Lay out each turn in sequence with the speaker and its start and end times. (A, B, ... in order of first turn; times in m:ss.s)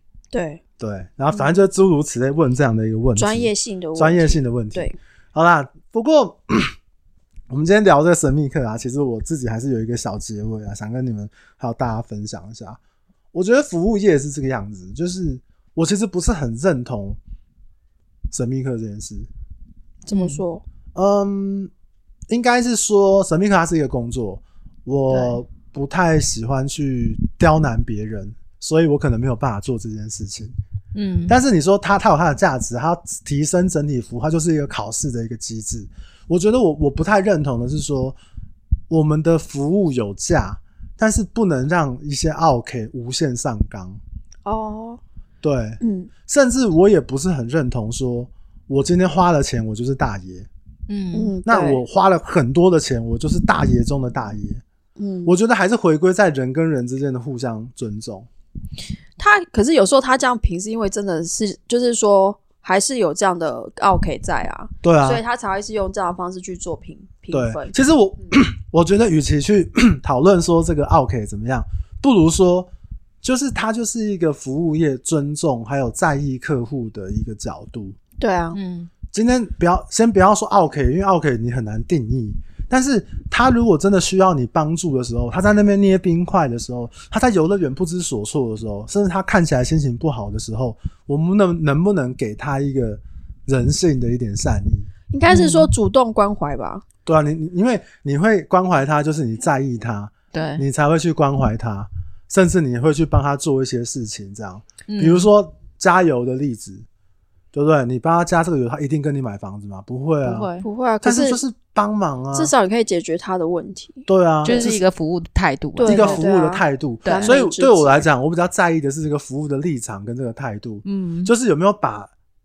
0:00.3-0:00.6 A
0:00.8-0:06.7 B
0:03.2-0:05.0 A
0:07.5-0:12.8 B
0:13.3-0:17.2 B
0:18.3-0:19.3 B
0:20.0-0:20.6 A
0:20.1-0:20.4 C
0:20.9-0:21.7 B
0:22.3-0:30.5 B
0:30.9-0:31.4 C
0:31.3-0:38.2 B
0:38.9-0:44.0 B
0:44.4-0:45.0 A
0:45.4-0:50.5 B
0:45.8-0:46.1 A
0:50.9-0:51.4 C
0:51.1-0:51.8 A
0:51.4-0:54.6 B
0:55.0-0:55.3 A
0:55.2-0:58.3 B
0:59.2-1:07.7 A
1:04.8-1:05.2 B
1:07.3-1:12.7 B
1:13.2-1:18.0 B
1:18.2-1:18.6 A
1:18.5-1:18.9 C
1:19.1-1:34.9 B
1:35.1-1:36.8 A
1:35.3-1:35.7 C
1:37.0-1:46.8 B
1:40.3-1:40.6 C
1:44.9-1:45.3 C
1:47.5-1:50.5 B
1:50.2-1:50.6 C
1:50.6-1:51.4 A
1:51.0-1:52.5 B
1:52.3-1:54.7 A
1:54.1-1:54.8 B
1:54.4-1:56.2 C
1:55.8-1:58.0 A
1:55.8-2:02.1 B
1:57.0-1:57.4 C
2:00.8-2:01.3 C